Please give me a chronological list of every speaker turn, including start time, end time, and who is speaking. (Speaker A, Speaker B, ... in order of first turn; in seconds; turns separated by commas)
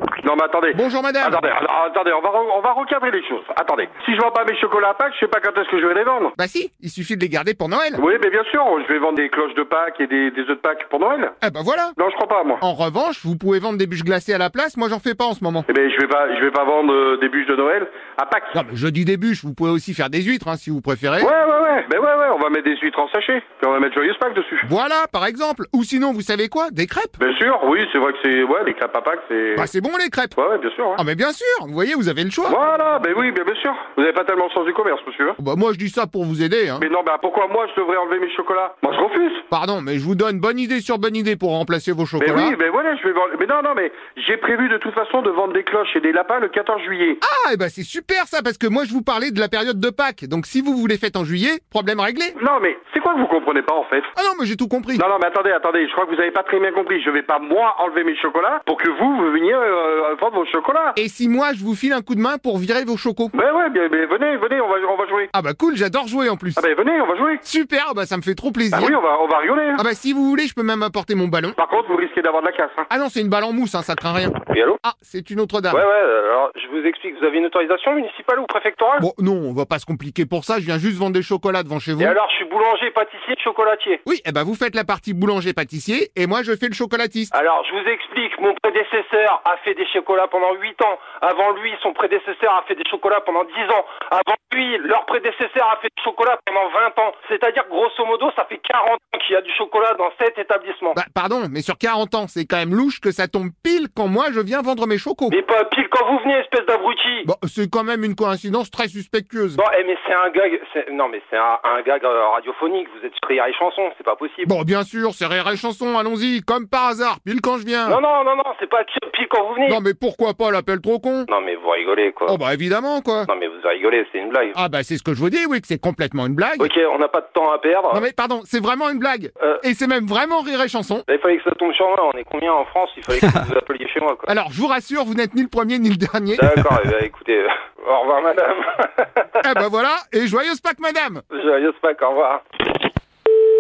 Speaker A: 0.2-6.3, Speaker B: 0.7-1.4, Speaker B: 6.4-8.0, Speaker A: 8.0-11.3, Speaker B: 11.4-11.9, Speaker A: 12.0-12.6, Speaker B: 12.6-15.7, Speaker A: 15.7-18.6, Speaker B: 18.5-21.3, Speaker A: 21.2-24.7, Speaker B: 24.6-27.2, Speaker A: 27.2-29.7, Speaker B: 29.6-30.4, Speaker A: 30.4-31.0, Speaker B: 31.0-32.6, Speaker A: 32.5-35.4, Speaker B: 35.4-36.9, Speaker A: 36.8-39.4, Speaker B: 39.5-42.6, Speaker A: 42.2-47.2, Speaker B: 47.2-52.4, Speaker A: 52.4-54.1, Speaker B: 54.1-55.0, Speaker A: 55.0-61.0, Speaker B: 61.0-63.3, Speaker A: 63.3-65.3, Speaker B: 65.3-66.6, Speaker A: 66.6-67.4, Speaker B: 67.5-69.0, Speaker A: 68.7-69.8, Speaker B: 69.8-71.6, Speaker A: 71.6-72.9, Speaker B: 72.9-75.8, Speaker C: 74.5-74.8, Speaker C: 75.7-79.1, Speaker B: 79.0-82.2, Speaker C: 82.0-84.0, Speaker B: 84.0-87.3, Speaker C: 87.3-101.0, Speaker B: 100.9-105.4, Speaker C: 105.3-107.3, Speaker B: 107.2-109.6, Speaker C: 109.6-114.5, Speaker B: 114.5-118.0, Speaker C: 117.9-119.8, Speaker B: 119.7-121.3, Speaker C: 121.3-122.4, Speaker B: 122.3-123.3, Speaker C: 123.3-124.6, Speaker B: 124.5-126.7, Speaker C: 126.6-128.1, Speaker B: 127.9-131.1, Speaker C: 131.1-134.3, Speaker B: 134.3-136.5, Speaker C: 136.4-139.5, Speaker B: 139.4-141.2, Speaker C: 141.3-142.4